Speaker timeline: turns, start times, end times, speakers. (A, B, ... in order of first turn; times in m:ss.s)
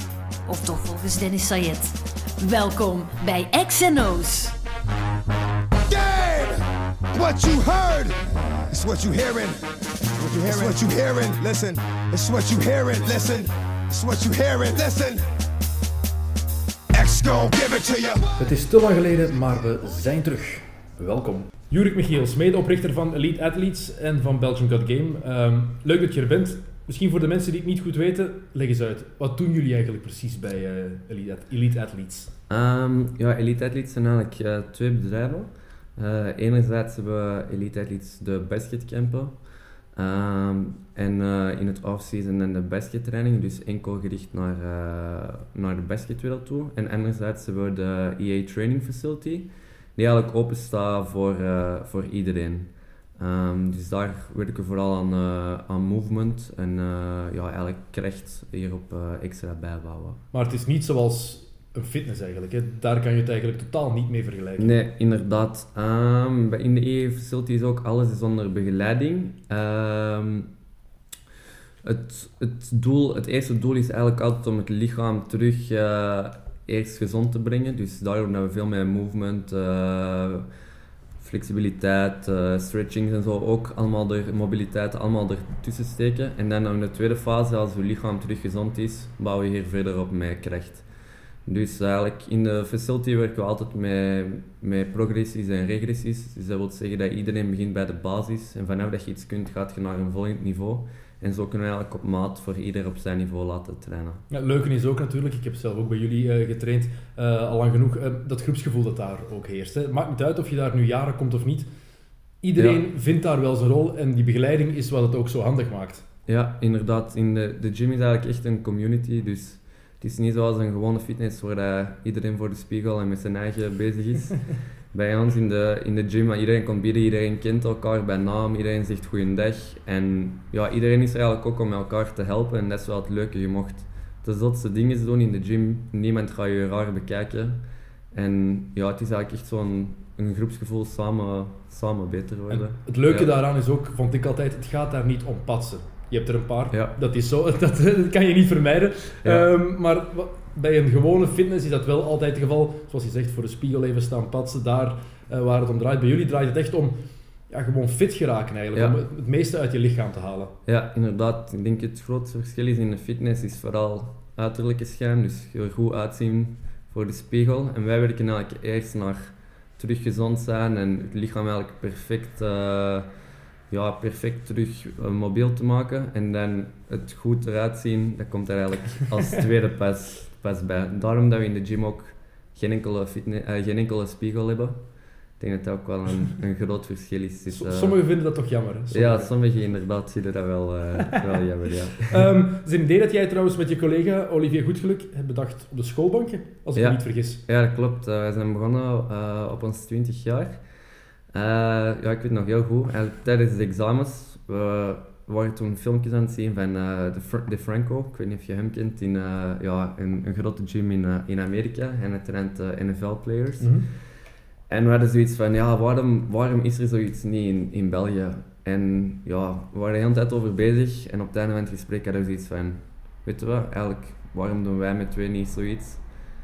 0:00.5-0:04.6 A
0:05.9-0:08.2 B
0:08.7-0:15.3 B
0:16.9-0:18.2 B
0:18.4-0:32.3 C
0:32.5-0:39.4 D
0:39.9-1:00.2 D
1:00.3-1:04.7 C
1:04.6-1:10.5 D
1:11.8-1:20.5 D
1:21.2-1:30.8 D
1:31.4-1:44.2 D
1:44.3-1:51.6 C
1:52.4-1:56.0 C
1:52.6-1:52.8 D
1:56.3-2:17.6 D
2:18.1-2:23.3 D
2:22.5-2:37.0 C
2:29.2-2:29.5 D
2:37.5-2:40.5 C
2:40.7-2:53.1 D
2:53.7-3:04.8 D
3:05.4-3:08.0 D
3:07.5-3:09.3 C
3:08.9-3:12.2 D
3:12.1-3:17.4 C
3:16.8-3:20.6 D
3:21.3-3:33.7 D
3:33.6-3:33.9 C
3:34.7-3:46.0 D